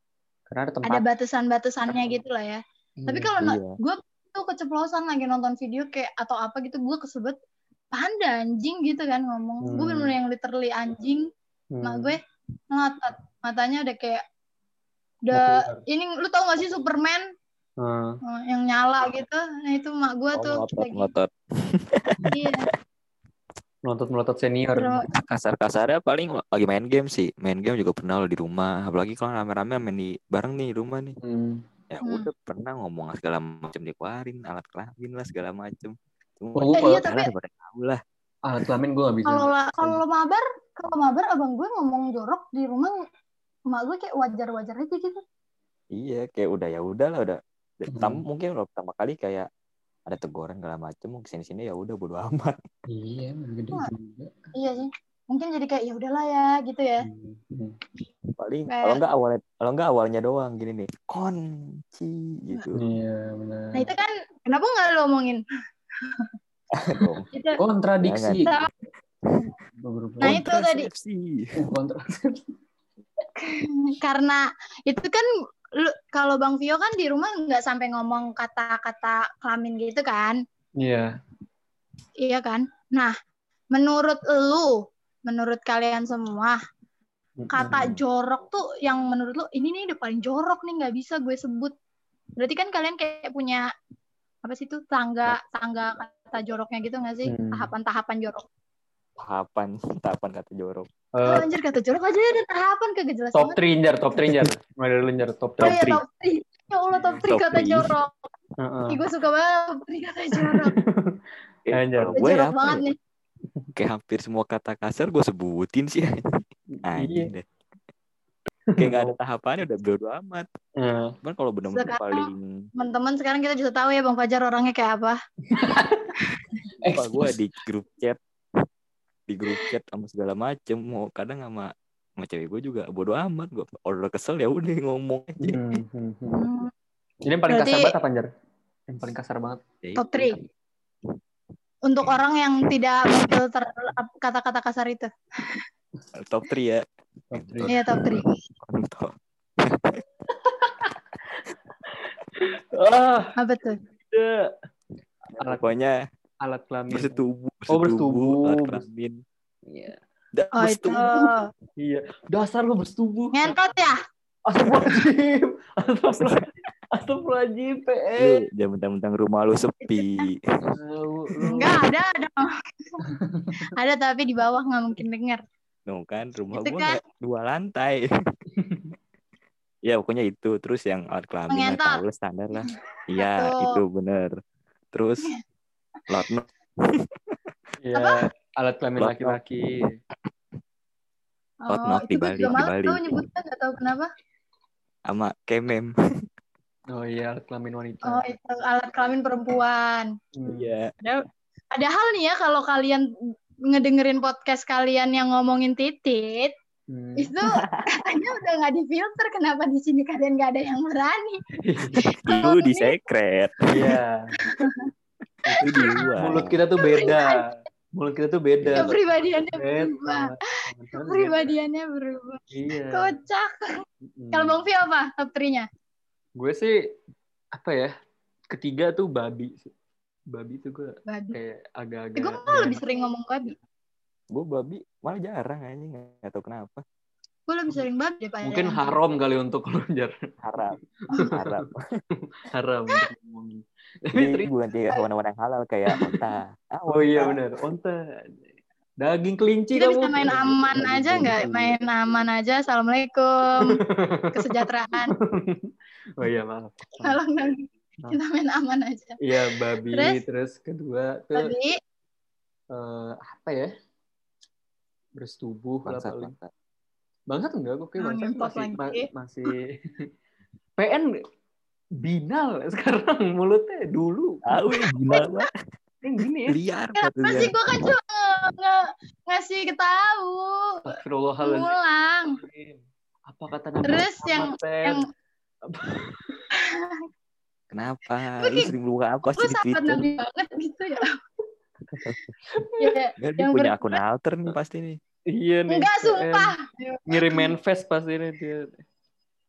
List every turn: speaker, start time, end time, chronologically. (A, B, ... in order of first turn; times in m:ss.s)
0:00.5-0:01.0 A
0:00.9-0:07.4 B
0:03.0-0:03.3 A
0:03.4-0:03.8 C
0:07.9-0:11.2 B
0:09.6-0:10.1 A
0:11.7-0:12.2 A
0:11.8-0:12.2 B
0:12.7-0:14.2 B
0:15.2-0:17.2 B
0:15.3-0:15.8 A
0:17.8-0:18.2 A
0:18.2-0:21.1 B
0:20.3-0:22.3 C
0:22.3-0:22.7 B
0:23.8-0:25.0 A
0:24.8-0:25.0 B
0:25.3-0:31.2 C
0:31.2-0:31.6 A
0:31.9-0:38.0 C
0:36.6-0:37.0 A
0:36.7-0:37.3 B
0:38.4-0:40.0 A
0:39.3-0:43.0 B
0:43.7-0:45.2 B
0:45.9-0:49.5 C
0:47.9-0:48.2 A
0:50.1-0:52.6 C
0:52.9-0:54.4 A
0:54.6-0:57.1 B
0:57.0-0:57.8 A
0:58.4-1:02.8 C
0:58.7-0:59.0 B
1:02.7-1:03.9 A
1:03.8-1:05.4 B
1:06.8-1:07.2 C
1:07.3-1:07.6 B
1:07.6-1:08.5 A
1:08.0-1:08.5 C
1:09.8-1:10.4 A
1:10.2-1:10.9 B
1:10.2-1:11.6 C
1:11.6-1:12.4 A
1:13.4-1:15.2 B
1:15.8-1:20.4 B
1:20.8-1:21.1 A
1:22.2-1:23.1 B
1:23.7-1:24.7 B
1:25.2-1:26.6 B
1:27.4-1:27.8 A
1:27.5-1:31.7 B
1:32.4-1:33.6 B
1:34.4-1:38.4 B
1:37.2-1:37.7 A
1:39.2-1:40.9 C
1:41.1-1:41.5 A
1:41.2-1:43.6 B
1:43.4-1:45.8 A
1:44.2-1:44.5 C
1:45.6-1:46.0 C
1:45.6-1:48.3 B
1:47.1-1:47.9 C
1:48.6-1:49.0 A
1:48.9-1:50.7 B
1:50.4-1:51.2 A
1:51.7-1:52.8 C
1:51.7-1:52.2 A
1:52.2-1:53.0 B
1:53.8-1:56.1 C
1:56.7-1:57.3 A
1:56.8-1:57.5 C
1:58.7-1:59.2 A
1:58.8-2:00.5 C
2:00.8-2:01.2 A
2:01.2-2:02.7 C
2:01.7-2:05.2 B
2:05.5-2:06.1 A
2:06.3-2:06.6 B
2:06.8-2:07.4 A
2:06.9-2:08.2 C
2:09.3-2:15.8 C
2:15.4-2:16.4 A
2:16.3-2:16.7 B
2:17.2-2:18.3 A
2:17.5-2:17.9 B
2:18.9-2:19.6 A
2:19.8-2:20.5 C
2:20.0-2:20.4 B
2:21.9-2:25.6 B
2:26.1-2:27.8 C
2:27.3-2:27.8 A
2:27.7-2:28.3 B
2:28.6-2:30.0 C
2:30.3-2:31.0 A
2:31.9-2:33.4 A
2:33.4-2:33.8 B
2:34.1-2:34.5 A
2:35.4-2:36.0 C
2:35.4-2:35.7 A
2:36.4-2:38.8 A
2:36.9-2:39.2 C
2:39.7-2:40.0 A
2:40.3-2:41.3 C
2:40.6-2:41.5 B
2:41.8-2:43.6 A
2:43.3-2:44.0 B
2:44.5-2:48.4 A
2:44.7-2:44.9 C
2:46.1-2:46.4 C
2:48.2-2:50.4 C
2:49.8-2:50.3 B
2:50.7-2:51.9 A
2:51.5-2:52.5 B
2:53.1-2:53.6 A
2:53.6-2:55.4 B
2:55.9-2:58.1 C
2:56.5-2:57.0 B
2:58.5-2:58.9 A
2:59.8-3:04.4 C
3:01.5-3:02.0 B
3:02.6-3:03.8 B
3:04.9-3:05.3 C
3:06.1-3:07.4 C
3:07.8-3:10.0 A
3:08.0-3:08.2 B
3:09.0-3:09.4 C
3:11.6-3:14.1 B
3:11.7-3:13.1 C
3:15.1-3:15.9 C
3:16.9-3:18.3 A
3:18.1-3:20.1 B
3:20.4-3:20.7 A
3:20.5-3:20.9 C
3:21.0-3:23.0 B
3:23.7-3:26.5 B
3:26.9-3:27.3 A
3:27.2-3:31.4 B
3:27.5-3:27.8 C
3:31.6-3:32.1 A
3:32.2-3:33.9 C
3:32.3-3:32.9 B
3:33.7-3:34.3 A
3:35.5-3:36.2 B
3:35.6-3:36.6 C
3:36.2-3:39.0 A
3:36.8-3:37.4 B
3:38.6-3:38.9 C
3:38.8-3:40.3 B
3:39.5-3:41.5 A
3:40.9-3:43.6 B
3:42.5-3:43.1 A
3:44.1-3:44.6 A
3:44.3-3:45.6 B
3:46.4-3:46.9 A
3:47.6-3:47.9 A
3:48.5-3:49.7 A
3:50.3-3:52.8 A
3:51.1-3:51.4 B
3:52.2-3:53.6 B
3:54.3-3:56.8 C
3:57.5-3:59.0 B
3:58.4-4:00.2 A
4:00.4-4:01.8 C
4:01.1-4:01.6 A
4:02.2-4:04.5 A
4:04.1-4:07.4 C
4:05.9-4:06.2 A
4:06.9-4:08.4 A
4:09.0-4:11.8 A
4:09.8-4:13.8 B
4:13.6-4:17.2 A
4:14.3-4:15.1 B
4:17.0-4:20.2 B
4:19.2-4:21.5 A
4:21.4-4:21.8 B
4:22.7-4:23.7 A
4:25.2-4:26.3 A
4:25.8-4:26.5 C
4:27.3-4:30.1 A
4:28.0-4:29.1 B
4:30.8-4:31.1 A
4:32.0-4:34.6 A
4:34.4-4:35.5 C
4:35.1-4:35.5 B
4:36.0-4:36.6 A
4:36.5-4:37.5 C
4:37.0-4:40.8 B
4:40.9-4:41.8 A
4:41.4-4:42.4 B
4:42.3-4:45.0 A
4:43.8-4:45.0 B
4:45.7-4:46.4 A
4:46.6-4:47.0 B
4:47.7-4:50.1 C
4:48.4-4:48.7 B
4:49.3-4:51.1 B
4:52.0-4:52.3 C
4:52.4-4:53.0 A
4:52.8-4:54.0 B
4:53.2-4:55.0 C
4:55.3-4:56.6 A
4:55.7-4:57.5 B
4:57.1-4:58.8 A